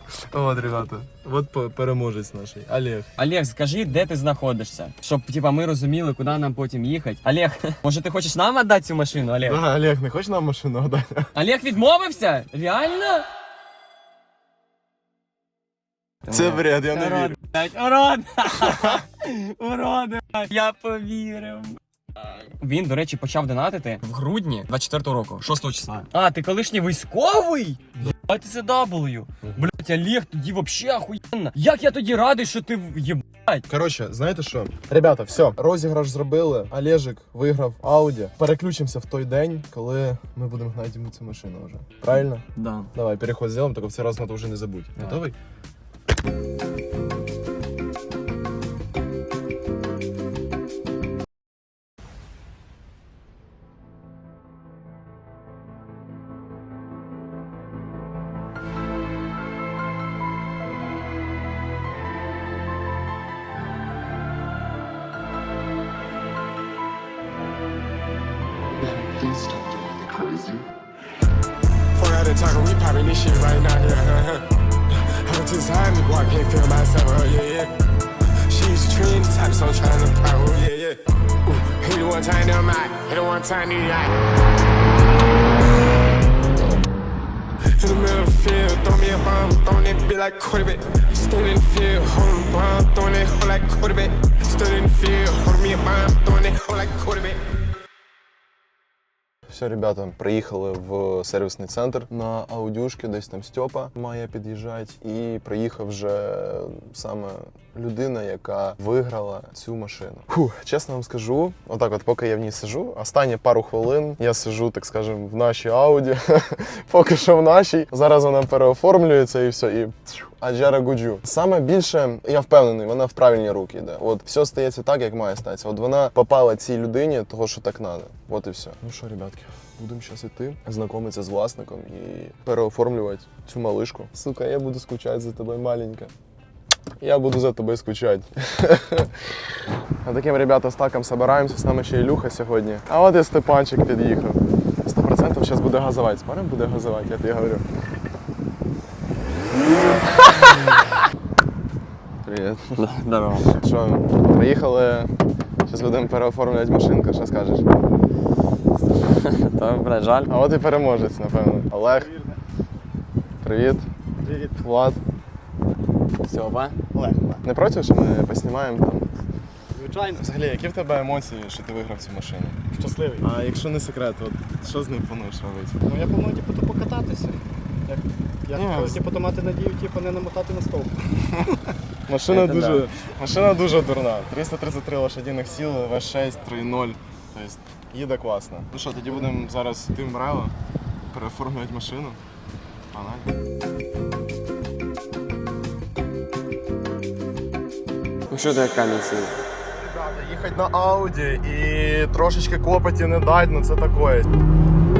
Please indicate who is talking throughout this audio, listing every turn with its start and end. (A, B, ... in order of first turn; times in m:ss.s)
0:00.3-0:03.1 A
0:03.2-0:09.6 B
0:09.4-0:11.3 A
0:11.4-0:13.3 B
0:16.2-0:33.7 B
0:16.3-0:17.4 A
0:18.7-0:19.0 A
0:33.7-0:45.4 A
0:42.6-0:42.9 B
1:08.7-1:10.6 C
1:11.9-1:17.8 C
1:18.4-1:24.2 C
1:27.7-1:37.4 C
1:39.5-2:16.1 A
2:17.0-2:19.4 A
2:20.0-2:27.6 A
2:32.2-2:32.7 A
2:32.7-2:33.5 B
2:33.4-2:35.1 A
2:35.7-2:37.7 A
2:38.8-2:40.3 B
2:40.3-2:42.1 A
2:42.0-2:42.4 D
2:43.4-2:43.9 A
2:44.2-2:44.6 D
2:44.6-2:45.0 A
2:46.2-2:46.8 B
2:46.9-2:47.4 D
2:47.4-2:49.1 A
2:49.7-2:50.3 D
2:50.2-2:52.6 A
2:52.7-2:53.3 D
2:53.2-2:55.8 A
2:55.8-3:01.1 D
2:58.5-2:59.0 A
3:01.3-3:10.5 A
3:02.3-3:02.8 B
3:11.1-3:12.2 A
3:12.9-3:13.3 A
3:18.3-3:19.3 B
3:19.7-3:24.3 A